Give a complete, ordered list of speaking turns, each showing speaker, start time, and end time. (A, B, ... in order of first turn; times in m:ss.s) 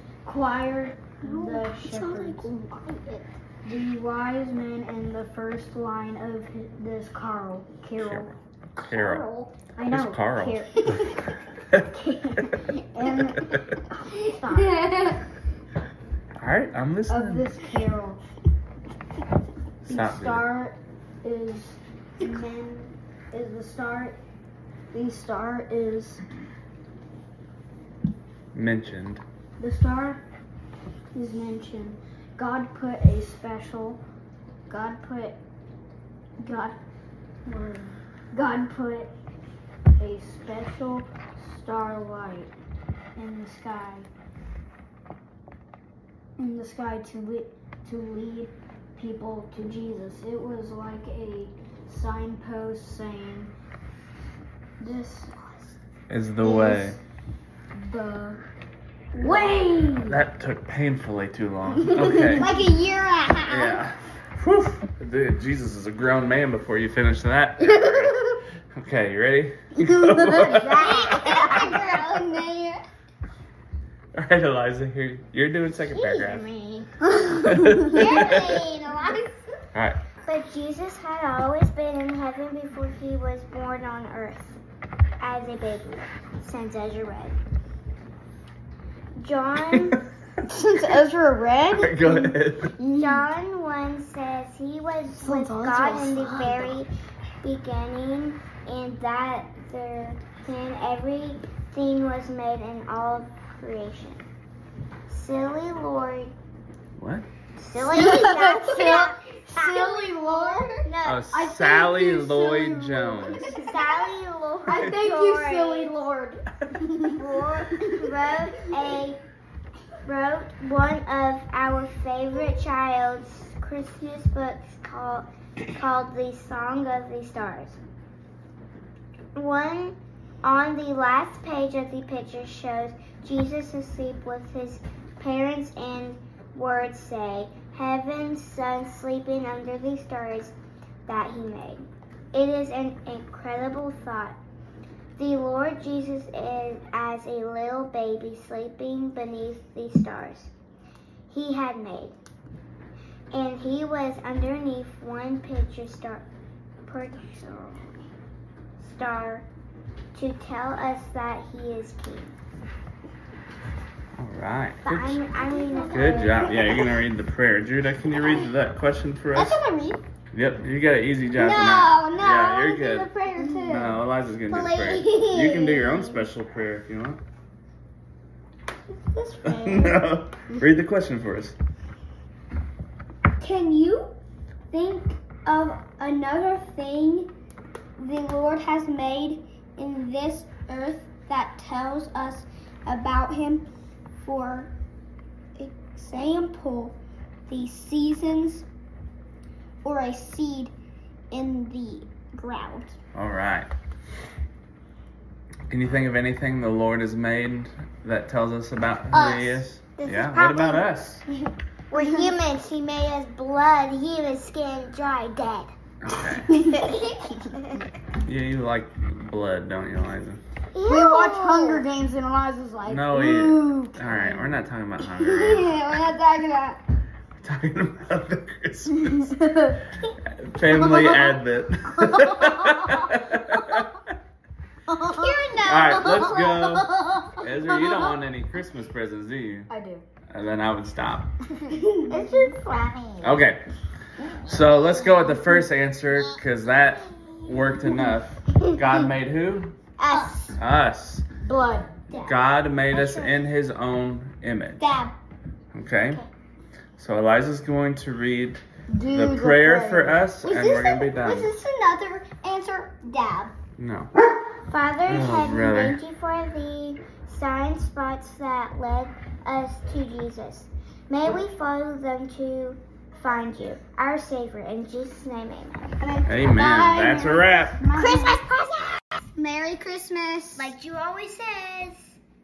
0:00.2-0:02.5 A
0:01.2-0:03.3 B
0:03.6-0:11.2 A
0:08.0-0:09.2 C
0:09.0-0:09.2 B
0:09.9-0:10.7 C
0:11.8-0:14.8 A
0:14.2-0:15.2 B
0:16.4-0:17.5 C
0:17.1-0:18.2 A
0:19.8-0:20.5 C
0:19.8-0:24.2 A
0:24.9-0:26.2 A
0:28.5-0:29.2 C
0:29.6-0:30.2 A
0:31.1-0:34.0 A
0:34.7-0:35.4 A
0:36.4-0:36.8 A
0:37.4-0:39.1 A
0:40.0-0:42.5 A
0:43.2-0:44.1 A
0:46.4-0:53.5 A
0:54.8-0:55.8 A
0:56.1-0:57.0 C
0:56.4-0:57.0 A
0:57.7-0:58.4 A
0:59.1-1:00.2 A
1:00.0-1:02.5 C
1:01.8-1:02.5 A
1:02.2-1:03.8 B
1:03.5-1:10.9 C
1:10.2-1:11.2 A
1:10.4-1:11.7 D
1:10.8-1:12.8 B
1:14.1-1:16.5 C
1:17.2-1:17.8 A
1:17.4-1:18.6 C
1:17.9-1:19.4 B
1:19.7-1:20.0 C
1:20.2-1:24.6 D
1:25.2-1:27.4 D
1:29.2-1:30.1 D
1:30.5-1:33.2 A
1:31.7-1:32.7 C
1:33.0-1:36.9 D
1:35.2-1:36.7 A
1:37.4-1:44.2 D
1:45.1-1:46.3 D
1:47.0-1:47.3 C
1:47.6-1:51.3 D
1:47.9-1:53.7 A
1:51.0-1:53.5 C
1:53.5-1:56.0 D
1:54.7-1:57.2 A
1:57.2-1:59.2 D
2:00.0-2:07.8 D
2:09.3-2:20.5 D
2:21.1-2:24.4 D
2:25.2-2:30.5 D
2:31.3-2:32.2 D
2:33.3-2:36.3 D
2:36.8-2:38.0 D
2:38.8-2:39.5 D
2:40.1-2:42.3 D
2:44.2-2:45.2 C
2:44.8-2:46.5 D
2:45.6-2:46.3 B
2:45.9-2:49.6 C
2:49.3-2:50.0 B
2:50.3-2:53.1 C
2:51.3-2:54.0 B
2:53.4-2:53.8 A
2:53.7-2:57.2 C
2:54.5-2:56.2 B
2:58.9-3:00.0 B
2:59.5-3:01.6 C
3:03.4-3:04.1 B
3:04.7-3:07.3 B
3:08.0-3:13.7 B
3:14.2-3:14.7 B
3:15.6-3:18.7 B
3:19.8-3:20.7 B
3:21.3-3:23.0 B
3:23.1-3:23.7 C
3:25.7-3:31.2 C
3:29.1-3:29.6 B
3:30.0-3:30.9 D
3:31.9-3:35.7 D
3:36.0-3:36.5 C
3:36.5-3:37.3 B
3:38.2-3:40.4 C
3:40.7-3:41.8 D
3:40.8-3:44.6 A
3:42.8-3:45.8 C
3:45.1-3:46.8 B
3:47.4-3:49.3 C
3:49.0-3:49.8 A
3:50.2-3:54.0 C
3:50.8-3:51.3 B
3:54.9-3:55.4 A
3:55.1-3:57.0 B
3:55.6-3:59.7 C
3:59.7-4:00.0 A
4:00.3-4:01.3 C
4:02.1-4:03.4 D
4:03.2-4:03.6 C
4:04.3-4:09.7 C
4:10.0-4:10.6 D
4:10.1-4:10.5 B
4:10.6-4:11.3 C
4:11.4-4:12.0 A
4:12.1-4:12.4 D
4:12.2-4:14.9 C
4:12.9-4:13.4 D
4:14.8-4:15.2 B
4:15.7-4:16.2 C
4:17.0-4:21.5 C
4:18.9-4:20.2 A
4:20.4-4:23.5 B
4:23.8-4:24.1 C
4:24.6-4:36.0 D
4:25.1-4:26.0 C
4:36.0-4:37.5 B
4:36.2-4:37.8 C
4:37.8-4:38.4 A
4:38.0-4:38.6 B
4:38.0-4:38.9 D
4:39.4-4:40.6 B
4:40.6-4:42.1 D